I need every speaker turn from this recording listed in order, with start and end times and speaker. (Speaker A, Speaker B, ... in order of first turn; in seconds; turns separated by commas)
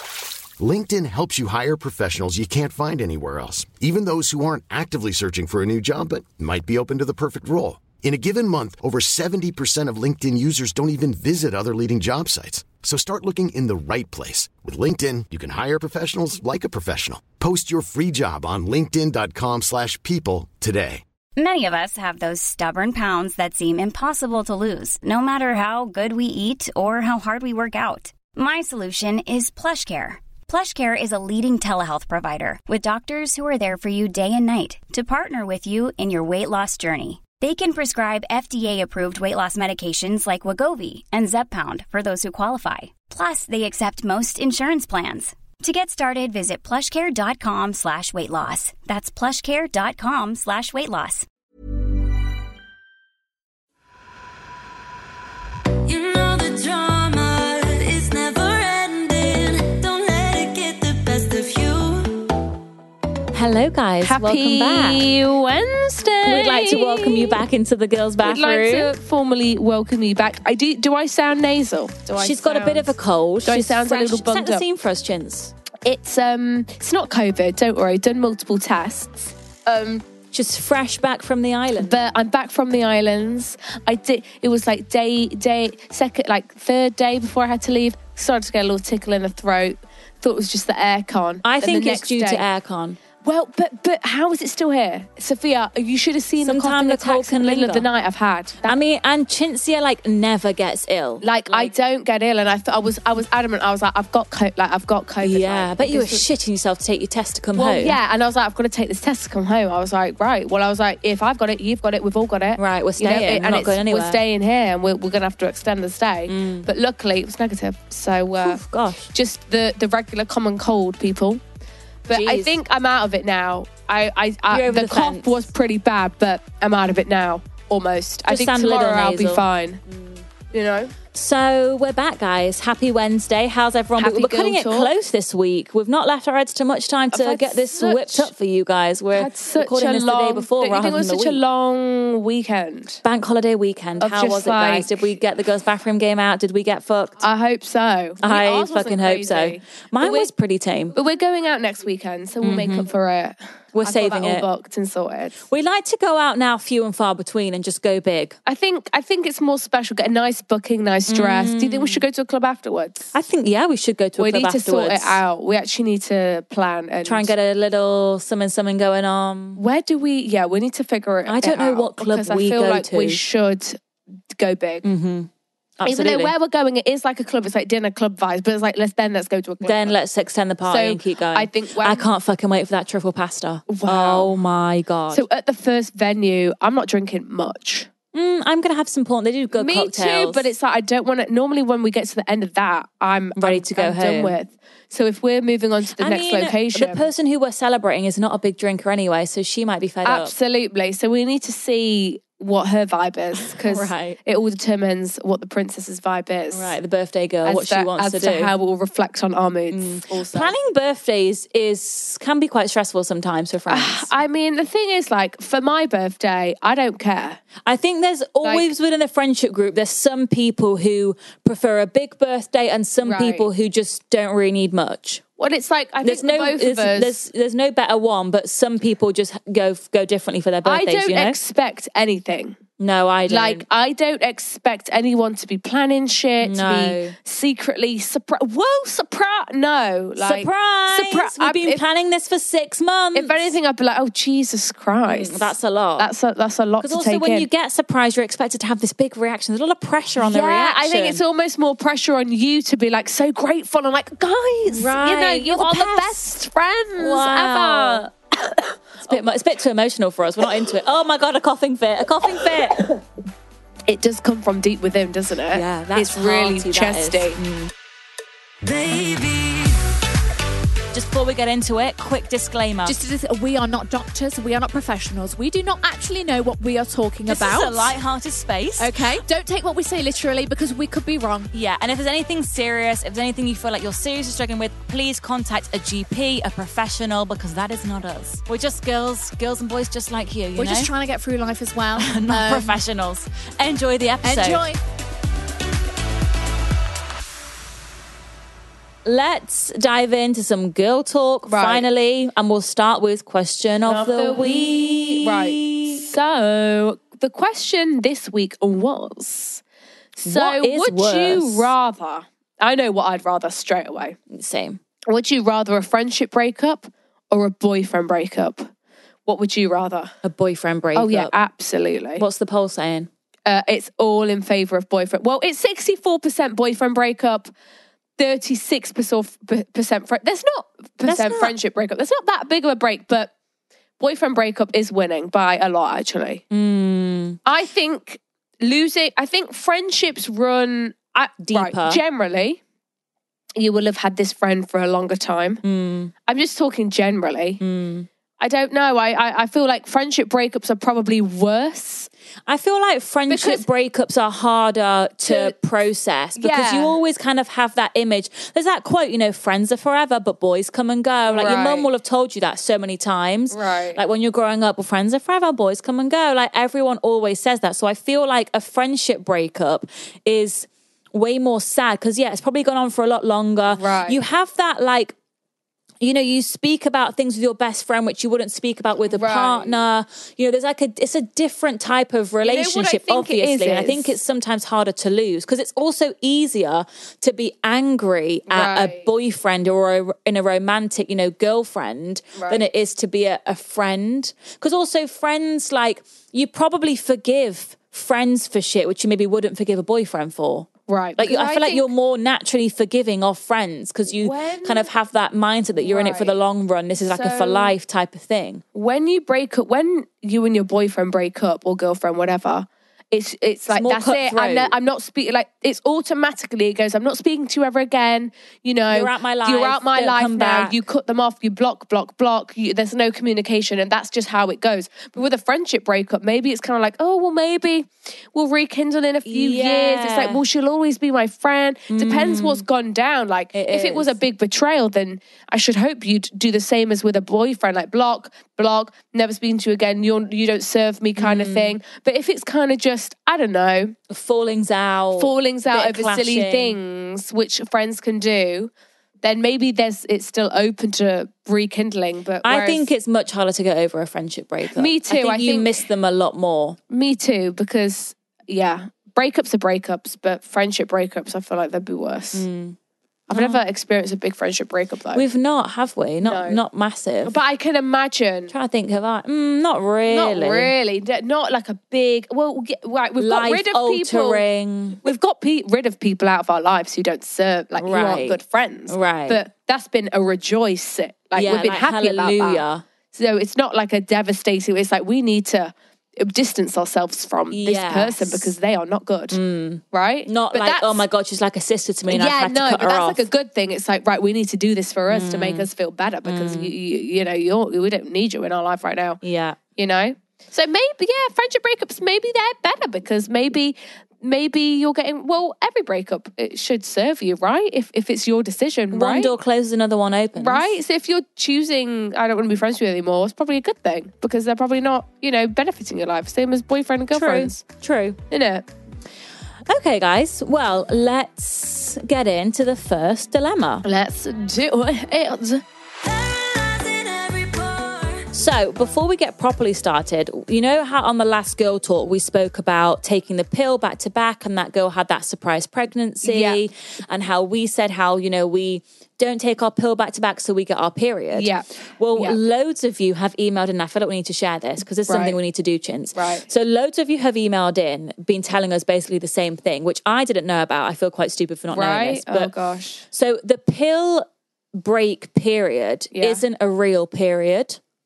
Speaker A: 0.6-21.0, Speaker B: 21.4-51.3, Speaker C: 55.8-62.3, Speaker D: 63.3-65.0, Speaker E: 64.0-67.4, Speaker D: 66.2-68.9, Speaker E: 68.2-74.6, Speaker D: 72.2-75.5, Speaker E: 75.8-80.0, Speaker D: 80.3-82.0, Speaker E: 81.8-92.4, Speaker D: 91.4-93.0, Speaker E: 93.2-98.8, Speaker D: 96.4-97.8, Speaker D: 98.6-101.7, Speaker E: 101.2-106.2, Speaker D: 105.2-108.0, Speaker E: 107.5-118.6, Speaker D: 112.6-114.2, Speaker D: 116.3-116.7, Speaker D: 118.4-119.1, Speaker E: 119.1-121.4, Speaker E: 122.1-129.8, Speaker D: 122.1-122.5, Speaker D: 124.5-125.5, Speaker D: 128.3-130.2, Speaker E: 130.5-130.9, Speaker D: 131.1-141.4, Speaker E: 134.0-134.9, Speaker E: 137.1-138.3, Speaker E: 139.1-143.0, Speaker D: 143.0-147.2, Speaker E: 144.0-144.9, Speaker E: 147.2-150.3, Speaker D: 148.2-150.9, Speaker E: 150.9-155.4, Speaker D: 152.4-152.9, Speaker D: 153.7-154.4, Speaker D: 155.5-158.4, Speaker E: 158.4-163.1, Speaker D: 161.1-162.0, Speaker D: 163.1-165.2, Speaker E: 164.2-167.3, Speaker D: 167.0-169.6, Speaker E: 169.6-173.8, Speaker D: 171.3-173.2, Speaker E: 174.3-174.8, Speaker D: 174.8-175.3, Speaker D: 175.8-176.3, Speaker E: 175.8-179.9, Speaker D: 179.6-185.2, Speaker E: 180.6-182.1, Speaker E: 183.7-184.3, Speaker E: 185.1-187.9, Speaker D: 188.1-190.5, Speaker E: 189.5-197.1, Speaker D: 193.4-194.4, Speaker D: 196.0-200.3, Speaker E: 200.0-206.8, Speaker D: 203.4-204.2, Speaker D: 206.5-208.5, Speaker E: 207.4-210.6, Speaker D: 209.7-214.1, Speaker E: 213.7-217.4, Speaker D: 217.7-225.2, Speaker E: 223.0-223.5, Speaker E: 225.4-227.2, Speaker D: 226.0-231.4, Speaker E: 230.6-232.6, Speaker D: 232.8-233.6, Speaker E: 233.3-241.8, Speaker D: 236.4-237.2, Speaker D: 240.2-243.4, Speaker E: 243.1-247.5, Speaker D: 245.1-246.1, Speaker D: 246.8-251.2, Speaker E: 250.2-259.3, Speaker D: 254.7-256.2, Speaker D: 257.0-258.1, Speaker D: 259.0-262.9, Speaker E: 263.9-267.4, Speaker D: 265.5-267.7, Speaker C: 268.7-269.7, Speaker D: 268.8-269.6, Speaker D: 270.9-273.0, Speaker F: 272.9-277.9, Speaker D: 277.3-279.1, Speaker F: 278.8-281.5, Speaker D: 281.5-290.9, Speaker F: 290.6-292.7, Speaker D: 292.0-294.7, Speaker F: 294.2-294.8, Speaker D: 299.0-306.1, Speaker E: 301.5-301.9, Speaker E: 303.8-309.6, Speaker E: 310.2-314.2, Speaker D: 310.2-311.7, Speaker D: 314.3-314.8, Speaker E: 315.1-318.7, Speaker E: 319.2-320.1, Speaker D: 320.2-321.3, Speaker E: 320.9-322.2, Speaker D: 322.2-323.1, Speaker E: 323.4-327.5, Speaker E: 328.2-333.3, Speaker D: 331.1-331.5, Speaker E: 334.0-336.4, Speaker D: 336.5-337.4, Speaker E: 337.4-342.6, Speaker D: 341.4-342.0, Speaker E: 343.6-345.6, Speaker D: 345.6-346.1, Speaker E: 346.3-347.6, Speaker D: 347.6-348.1, Speaker E: 348.4-352.1, Speaker D: 352.5-375.1, Speaker E: 353.3-353.6, Speaker E: 355.2-355.5, Speaker E: 356.4-357.0, Speaker E: 361.2-361.9, Speaker E: 363.5-364.0, Speaker E: 373.7-374.2, Speaker D: 376.0-408.6, Speaker E: 379.1-379.8, Speaker E: 382.4-384.2, Speaker E: 388.5-389.1, Speaker E: 392.4-392.7, Speaker E: 400.9-401.9, Speaker E: 404.1-404.9, Speaker E: 405.8-406.4, Speaker E: 407.0-407.8, Speaker E: 408.7-443.9, Speaker D: 413.7-414.7, Speaker D: 418.9-420.8, Speaker D: 429.2-430.4, Speaker D: 431.9-432.6, Speaker D: 433.5-434.1, Speaker D: 441.2-441.8, Speaker D: 444.1-446.8, Speaker E: 445.1-448.7, Speaker E: 449.2-452.9, Speaker D: 452.4-456.8, Speaker E: 454.7-455.8, Speaker E: 456.9-462.4, Speaker D: 462.3-462.8, Speaker E: 463.3-465.2, Speaker D: 463.3-463.6, Speaker D: 465.1-467.3, Speaker E: 466.2-466.6, Speaker E: 467.2-468.5, Speaker D: 468.5-470.7, Speaker E: 470.1-474.4, Speaker D: 473.2-475.0, Speaker E: 475.0-489.4, Speaker D: 477.8-478.4, Speaker D: 478.9-479.4, Speaker D: 481.3-482.8, Speaker D: 487.5-488.5, Speaker D: 489.3-493.2, Speaker E: 489.9-491.0, Speaker E: 492.1-499.2, Speaker D: 495.1-495.7, Speaker D: 496.2-496.7, Speaker D: 499.2-499.6, Speaker E: 499.8-509.3, Speaker D: 508.9-510.7, Speaker E: 510.4-517.5, Speaker D: 517.1-518.2, Speaker E: 518.3-518.6, Speaker D: 519.7-523.8, Speaker E: 523.8-525.6, Speaker D: 526.1-552.5, Speaker E: 536.2-536.6, Speaker E: 541.3-542.4, Speaker E: 545.1-545.4, Speaker E: 546.1-546.5, Speaker E: 551.7-553.0, Speaker D: 553.1-554.2, Speaker D: 554.8-557.8, Speaker E: 556.1-556.4